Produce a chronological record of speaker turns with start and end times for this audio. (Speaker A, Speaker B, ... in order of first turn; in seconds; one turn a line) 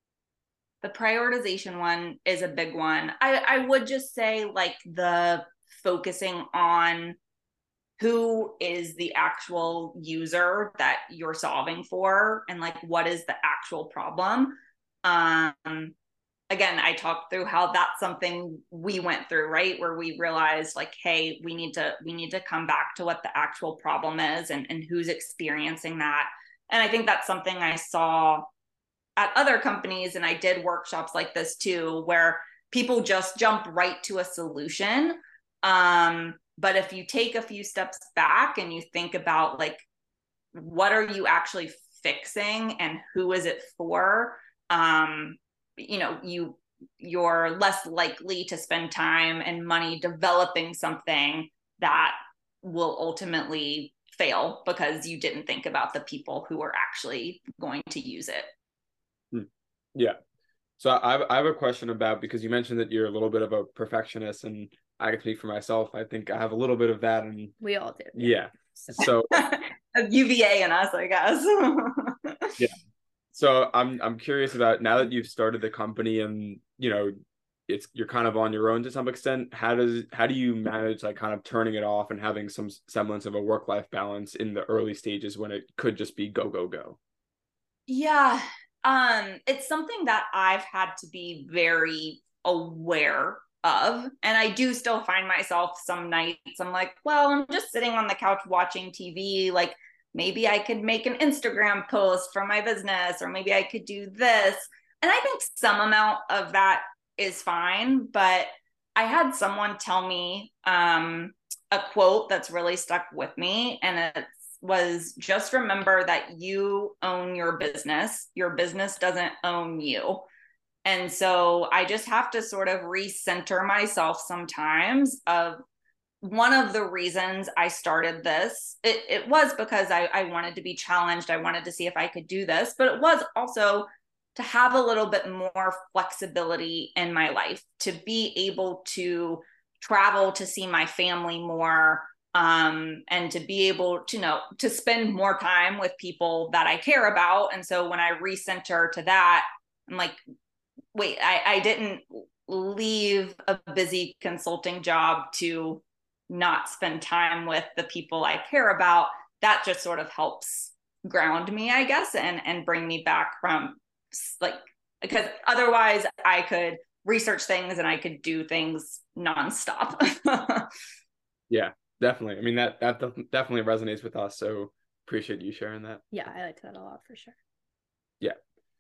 Speaker A: 0.8-7.2
Speaker A: 8.0-15.9
Speaker A: 16.5-28.5
Speaker A: 29.2-39.8
Speaker A: 40.5-58.5
Speaker B: 59.3-60.2
Speaker B: 60.8-67.6
Speaker C: 67.6-69.0
Speaker B: 68.2-69.5
Speaker A: 69.3-72.6
Speaker B: 73.3-77.2
Speaker B: 77.7-87.0
Speaker A: 87.9-120.3
Speaker A: 120.8-125.6
Speaker A: 126.2-150.2
Speaker A: 150.9-170.7
Speaker B: 171.5-176.0
Speaker C: 176.1-177.4